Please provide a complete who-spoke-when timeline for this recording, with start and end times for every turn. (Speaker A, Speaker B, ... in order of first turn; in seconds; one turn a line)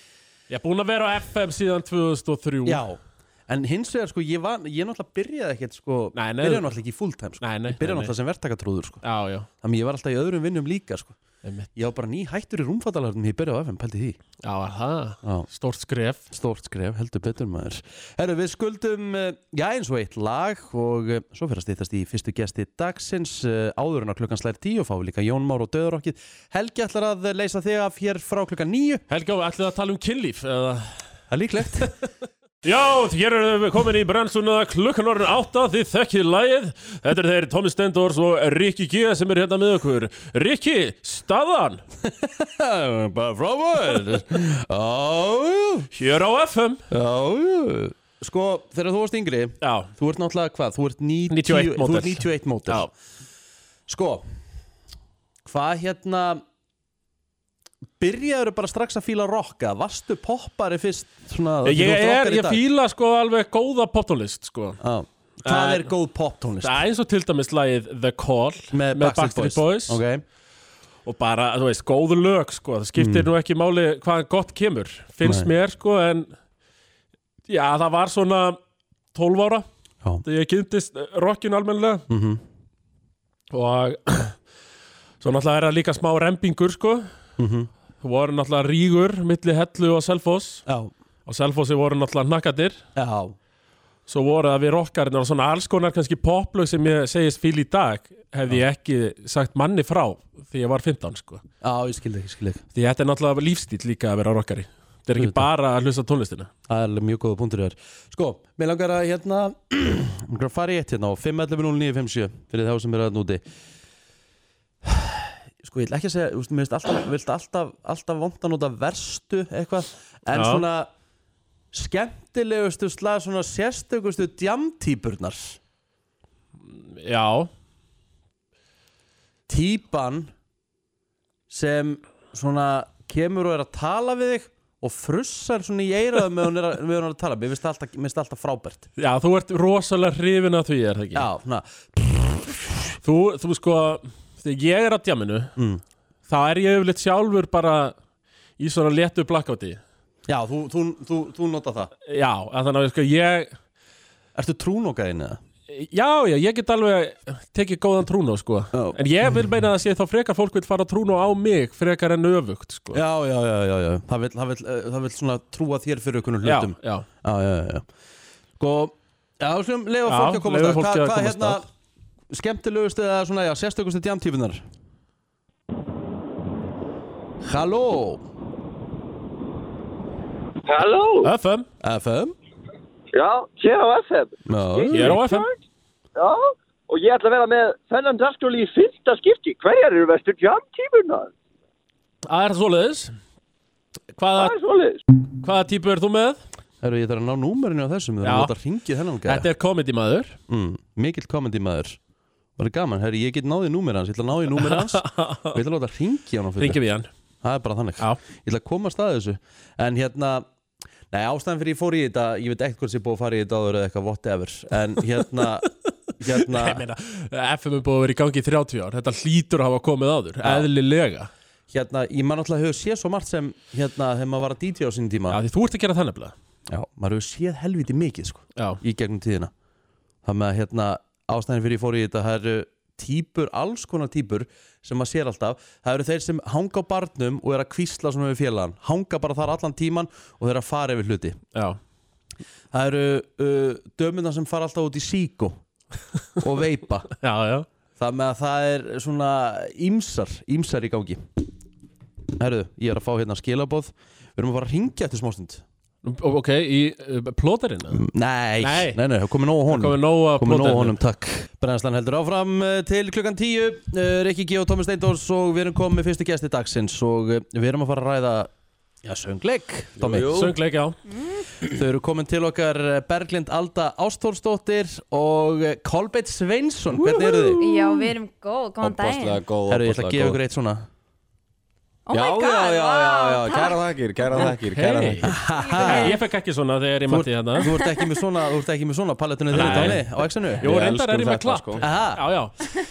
Speaker A: 0.5-2.8
Speaker B: 2.6-9.0
Speaker A: 6.1-6.7
Speaker A: 7.4-8.1
Speaker A: 9.0-9.5
Speaker B: 9.6-11.2
Speaker A: 11.4-11.7
Speaker B: 11.7-14.2
Speaker A: 14.4-16.3
Speaker B: 16.3-29.0
Speaker A: 29.1-31.1
Speaker B: 31.3-31.9
Speaker A: 32.6-41.8
Speaker B: 42.0-45.9
Speaker A: 45.9-46.8
Speaker B: 46.9-52.9
Speaker A: 49.6-49.9
Speaker A: 51.3-52.9
Speaker B: 53.9-54.2
Speaker B: 55.4-56.4
Speaker B: 58.0-62.6
Speaker A: 61.6-64.8
Speaker B: 64.8-66.8
Speaker A: 65.5-65.9
Speaker A: 66.6-70.0
Speaker B: 68.7-70.2
Speaker A: 71.0-76.3
Speaker B: 73.0-73.3
Speaker B: 75.2-75.5
Speaker A: 77.5-78.6
Speaker A: 79.1-79.7
Speaker A: 80.2-82.0
Speaker B: 82.1-82.4
Speaker A: 83.5-84.4
Speaker A: 85.2-87.1
Speaker B: 87.4-87.7
Speaker A: 88.0-90.6
Speaker B: 90.7-90.9
Speaker A: 91.2-92.8
Speaker B: 93.0-93.3
Speaker A: 94.1-101.4
Speaker B: 101.6-102.6
Speaker A: 102.7-106.5
Speaker B: 105.1-105.4
Speaker B: 106.7-113.4
Speaker B: 114.8-120.9
Speaker A: 120.3-120.6
Speaker B: 121.7-125.6
Speaker A: 126.6-127.5
Speaker B: 129.5-130.3
Speaker B: 131.5-138.9
Speaker A: 139.0-141.3
Speaker B: 141.1-142.9
Speaker A: 143.0-145.5
Speaker B: 145.6-145.8
Speaker A: 146.3-147.9
Speaker A: 148.6-149.8
Speaker B: 150.3-151.9
Speaker A: 152.0-153.6
Speaker B: 154.3-155.4
Speaker A: 155.7-163.0
Speaker B: 158.7-159.0
Speaker B: 162.9-167.9
Speaker A: 166.4-167.1
Speaker B: 168.6-171.7
Speaker A: 170.1-171.6
Speaker B: 172.3-174.6
Speaker B: 177.4-178.2
Speaker C: 180.7-181.3
Speaker A: 181.2-181.7
Speaker B: 181.8-182.3
Speaker C: 183.1-185.6
Speaker B: 184.5-185.2
Speaker A: 184.9-185.5
Speaker C: 186.2-191.3
Speaker A: 192.2-193.1
Speaker A: 194.1-194.5
Speaker C: 194.3-195.0
Speaker A: 195.4-196.4
Speaker B: 196.8-199.5
Speaker A: 198.2-198.5
Speaker A: 199.2-200.4
Speaker B: 200.5-202.0
Speaker B: 202.6-206.8
Speaker A: 204.5-205.6
Speaker A: 206.6-207.1
Speaker B: 207.4-210.4
Speaker B: 211.1-215.7
Speaker A: 215.1-215.7
Speaker B: 216.2-216.8
Speaker A: 216.2-221.3
Speaker B: 220.4-220.7
Speaker B: 221.7-225.4
Speaker A: 225.3-226.3
Speaker B: 226.7-229.5
Speaker A: 228.6-228.8
Speaker B: 230.2-241.4
Speaker B: 242.7-245.6
Speaker B: 246.4-247.1
Speaker A: 247.2-247.7
Speaker B: 248.0-251.4
Speaker B: 252.4-255.6
Speaker A: 256.0-258.0
Speaker B: 257.9-268.5
Speaker A: 258.6-259.0
Speaker A: 259.7-261.0
Speaker B: 269.0-270.3
Speaker D: 270.0-270.6
Speaker A: 270.3-271.0
Speaker E: 271.1-271.5
Speaker B: 271.7-277.6
Speaker D: 277.1-278.1
Speaker E: 277.6-279.4
Speaker D: 278.8-280.4
Speaker B: 279.7-280.9
Speaker E: 282.1-283.8
Speaker D: 282.1-285.4
Speaker A: 284.4-285.3
Speaker B: 285.3-286.1
Speaker E: 285.6-286.2
Speaker A: 285.8-287.7
Speaker B: 287.1-290.7
Speaker D: 289.5-291.8
Speaker A: 289.5-290.0
Speaker A: 290.6-292.6
Speaker B: 291.8-292.2